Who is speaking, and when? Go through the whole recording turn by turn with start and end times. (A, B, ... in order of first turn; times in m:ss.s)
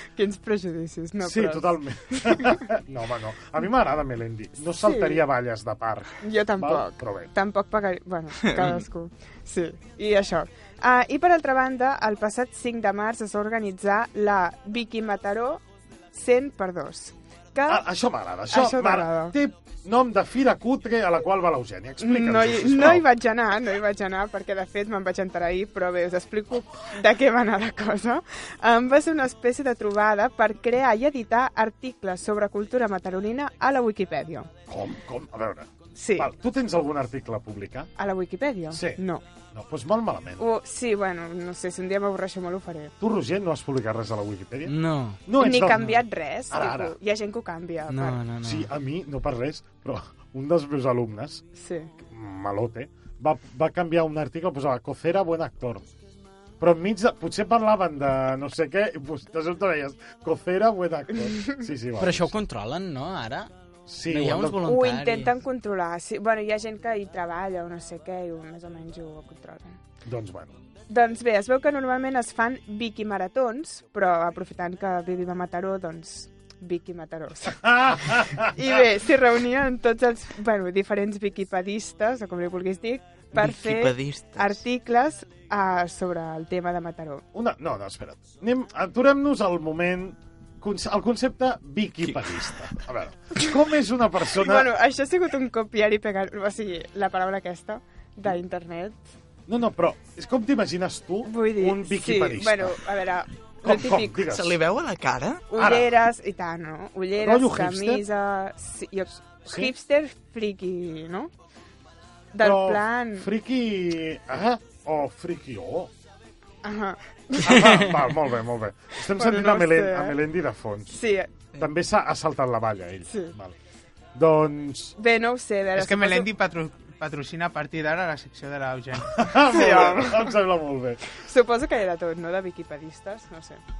0:00.2-0:02.7 A
0:01.2-0:07.3 B
0:04.8-0:05.2 A
0:06.2-0:17.9 A
0:08.5-0:08.7 C
0:17.7-0:23.1 B
0:18.5-0:19.4 A
0:22.0-0:34.5 A
0:34.7-0:37.9 B
0:36.0-0:36.3 A
0:38.0-0:39.2 A
0:38.7-0:39.0 B
0:39.5-0:40.4 B
0:40.4-0:42.9 A
0:43.0-0:44.8 B
0:44.7-0:45.2 D
0:45.3-0:47.0 B
0:45.4-0:48.2 A
0:45.7-0:46.0 D
0:47.9-0:48.7 D
0:48.4-0:51.4 B
0:51.6-0:51.9 A
0:52.0-0:55.9 B
0:56.6-1:02.3 B
1:02.0-1:03.5 D
1:03.9-1:04.8 B
1:04.1-1:05.3 D
1:04.6-1:09.8 A
1:10.0-1:10.6 B
1:10.9-1:27.2 A
1:17.5-1:18.8 B
1:23.3-1:24.6 C
1:27.3-1:34.7 B
1:32.0-1:32.6 C
1:34.3-1:39.0 A
1:39.5-1:42.8 B
1:41.3-1:44.2 A
1:43.6-1:44.6 B
1:44.2-1:45.4 C
1:45.5-1:51.3 A
1:45.6-1:46.0 B
1:47.2-1:48.0 B
1:49.5-1:49.7 B
1:52.3-1:53.3 A
1:52.4-1:55.9 B
1:56.6-1:57.8 A
1:57.4-2:01.0 B
1:59.2-2:00.2 A
2:00.9-2:01.3 A
2:01.6-2:03.6 B
2:03.1-2:03.4 A
2:04.2-2:05.0 B
2:05.0-2:06.3 A
2:05.7-2:09.2 E
2:09.1-2:11.0 B
2:09.4-2:10.4 A
2:11.1-2:13.6 A